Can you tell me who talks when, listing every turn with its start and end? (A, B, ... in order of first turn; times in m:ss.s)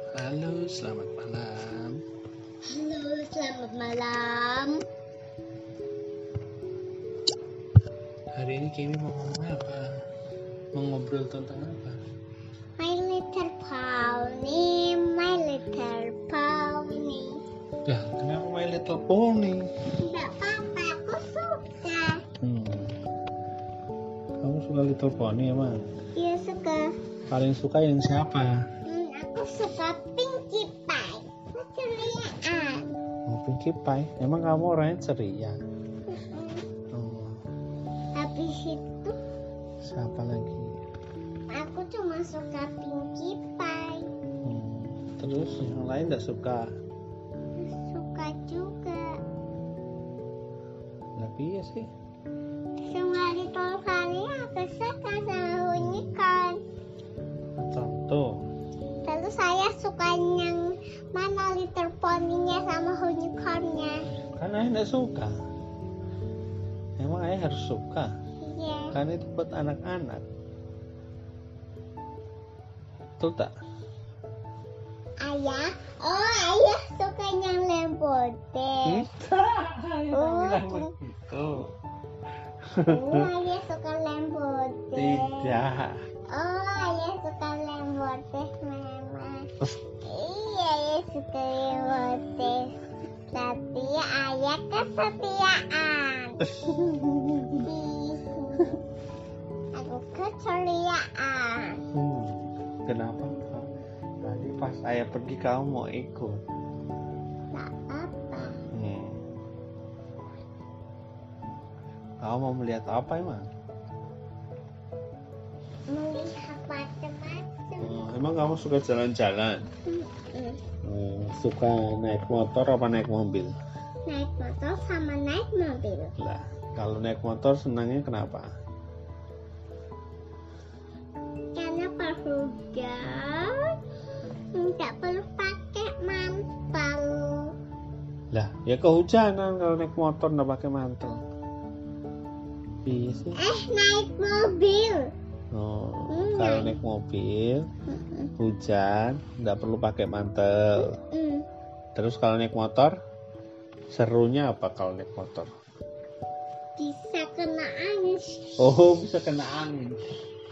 0:00.1-0:02.0 A
0:02.7-0:04.8 B
0:08.3-0:10.0 A
0:10.7-0:12.0 A
0:12.8-0:17.4 B
0:17.8-0:19.7 A
0:20.0-0:22.2 B
0:22.4-0:23.0 A
0:24.4-0:25.8 A
0:26.1-0:26.9 B
0:27.3-0:28.6 A
0:28.8-0:33.0 B
0:33.2-0:35.6 A
0:36.1-0:36.6 B
0:36.9-0:37.4 A
0:38.1-0:39.2 B
0:39.8-0:40.8 A
0:41.5-0:44.1 B
0:44.4-0:46.7 A
0:47.6-0:49.2 B
0:51.2-0:51.9 A
0:52.8-0:56.6 B
0:57.6-0:58.2 A
0:59.0-1:04.1 B
1:04.2-1:05.3 A
1:07.0-1:08.1 A
1:08.4-1:08.9 B
1:08.9-1:10.2 A
1:13.2-1:13.5 A
1:15.2-1:19.1 B
1:18.8-1:21.7 A
1:20.1-1:20.9 B
1:22.7-1:23.2 A
1:22.8-1:25.5 B
1:25.0-1:26.0 A
1:26.3-1:29.5 B
1:30.0-1:32.8 B
1:33.3-1:36.4 B
1:36.4-1:37.7 A
1:37.6-1:38.8 B
1:39.7-1:41.8 B
1:41.9-1:43.7 A
1:44.2-1:46.4 A
1:47.5-1:48.6 B
1:48.7-1:49.3 A
1:52.2-1:53.5 A
1:55.9-1:58.0 B
1:57.8-1:59.6 A
1:59.8-2:00.6 B
2:00.8-2:03.6 A
2:04.0-2:06.1 B
2:06.2-2:08.5 A
2:11.5-2:13.8 B
2:14.5-2:17.5 B
2:18.3-2:21.2 A
2:22.8-2:23.4 A
2:23.3-2:25.1 B
2:25.5-2:27.6 A
2:26.1-2:26.8 B
2:27.9-2:28.3 B
2:28.4-2:31.0 A
2:30.8-2:31.4 B
2:31.9-2:32.9 A
2:33.9-2:35.5 A
2:36.8-2:38.5 B
2:38.6-2:40.0 A